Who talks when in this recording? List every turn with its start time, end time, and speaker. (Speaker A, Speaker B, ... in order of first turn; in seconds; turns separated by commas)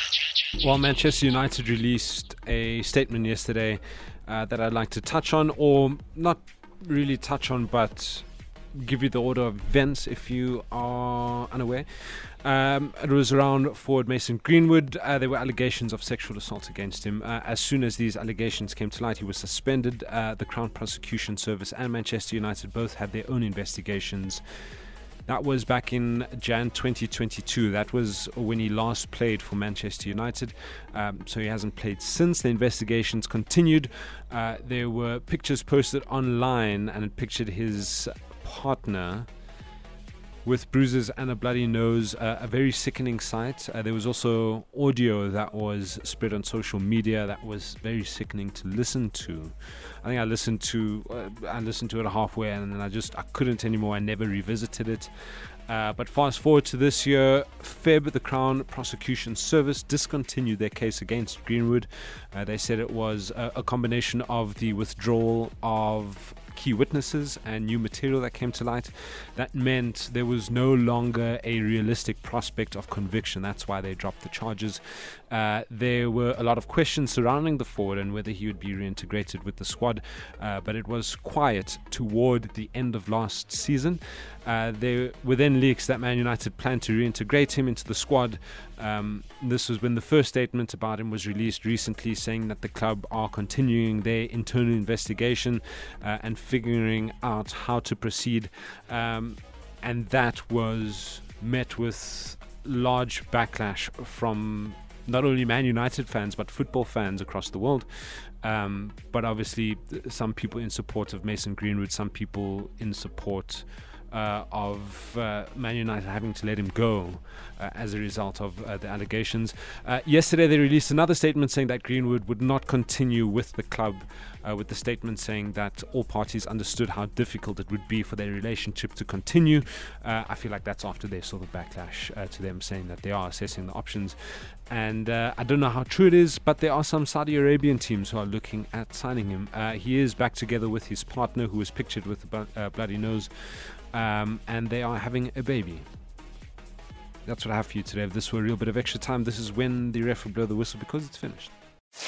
Speaker A: 0.6-24.4, Speaker A: 25.3-39.3, Speaker A: 40.4-55.1, Speaker A: 55.7-134.2, Speaker A: 134.7-145.8, Speaker A: 147.2-151.5